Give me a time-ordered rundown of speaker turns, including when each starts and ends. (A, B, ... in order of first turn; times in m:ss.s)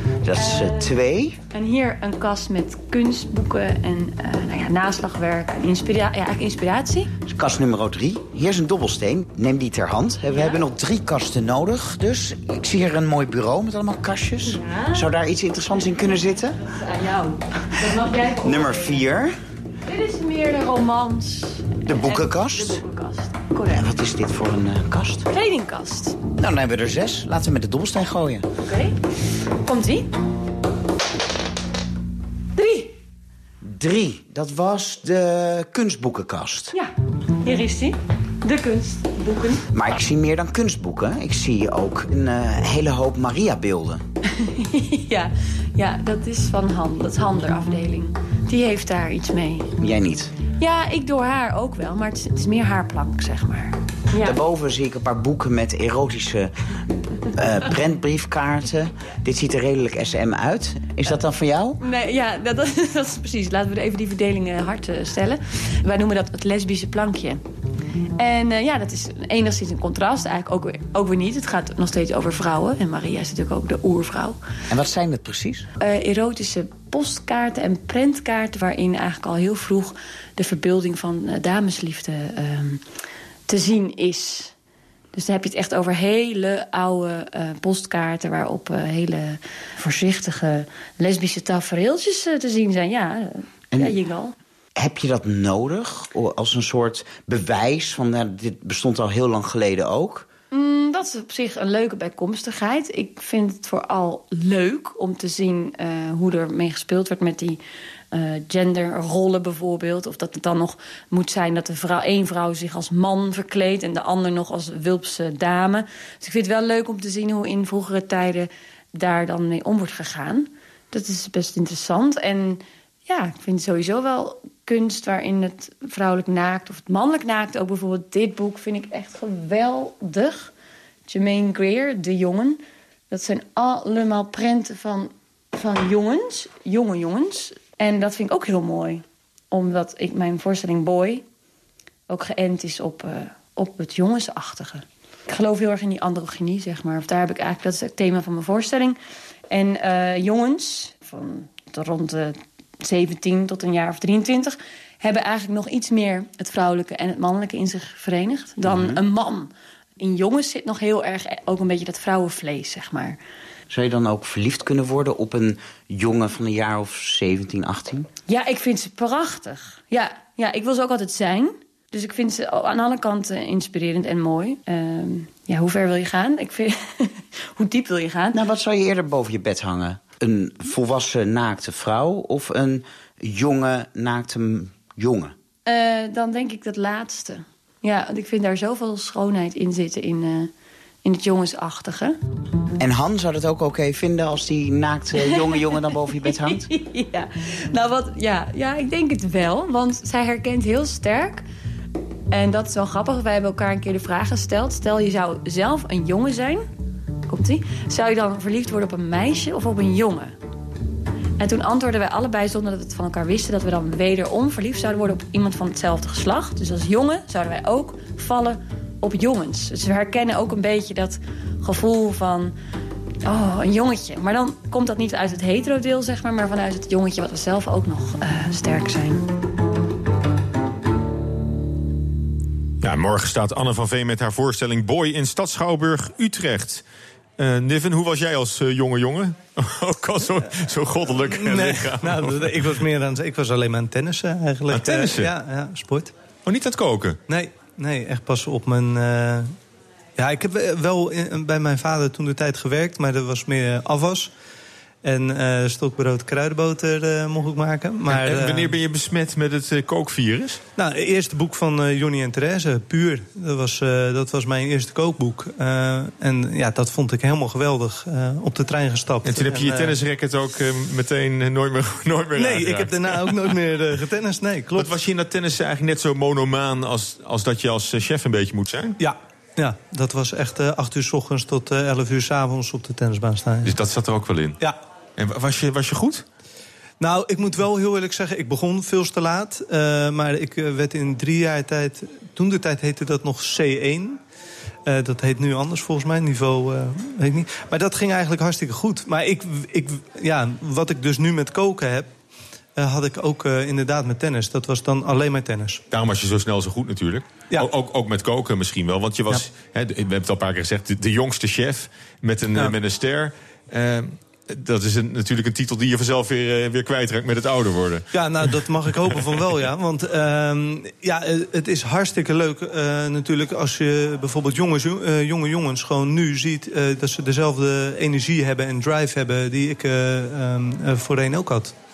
0:00.2-0:01.4 A
0:00.3-0:01.0 B
0:01.5-0:07.1 B
0:07.2-0:16.6 A
0:10.3-0:10.6 B
0:14.4-0:15.1 B
0:15.7-0:19.0 B
0:17.8-0:19.4 A
0:19.8-0:23.9 B
0:21.8-0:22.8 A
0:23.7-0:25.2 A
0:25.3-0:26.2 B
0:26.4-0:28.4 A
0:28.7-0:29.0 B
0:29.6-0:30.1 B
0:32.5-0:32.9 B
0:33.6-0:36.7 A
0:37.4-0:39.6 B
0:39.7-0:44.0 A
0:44.4-0:49.7 B
0:49.8-0:50.3 A
0:50.5-0:54.4 B
0:54.2-0:56.5 A
0:57.3-1:01.8 A
1:01.8-1:07.4 B
1:08.2-1:14.4 B
1:14.7-1:15.6 A
1:15.8-1:22.9 B
1:23.5-1:24.5 B
1:25.1-1:34.3 B
1:33.7-1:34.0 A
1:34.8-1:40.3 A
1:40.5-1:47.6 B
1:48.1-2:10.5 B
2:11.1-2:21.2 B
2:22.1-2:29.0 B
2:29.5-2:43.2 B
2:38.6-2:39.0 A
2:43.7-2:48.1 A
2:48.3-2:58.4 B
2:58.3-3:05.3 A
3:05.6-3:10.5 B
3:11.0-3:12.2 B
3:12.8-3:16.7 A
3:15.2-3:21.4 B
3:22.3-3:26.7 B
3:27.3-3:30.3 B
3:31.4-3:42.5 B
3:43.2-3:49.2 B
3:52.8-3:56.8 C
3:57.4-4:02.7 C
4:01.3-4:06.1 D
4:04.7-4:05.3 C
4:06.4-4:07.2 C
4:07.3-4:09.5 D
4:10.2-4:14.3 D
4:15.0-4:18.7 D
4:18.1-4:20.6 C
4:20.8-4:29.9 D
4:29.2-4:33.5 C
4:32.3-4:34.9 D
4:34.8-4:39.0 C
4:39.0-4:43.7 D
4:43.6-4:44.6 C
4:45.2-4:46.2 C
4:47.0-4:54.2 D
4:54.8-5:02.1 D
5:02.8-5:05.8 D
5:05.9-5:18.0 C
5:18.1-5:31.7 D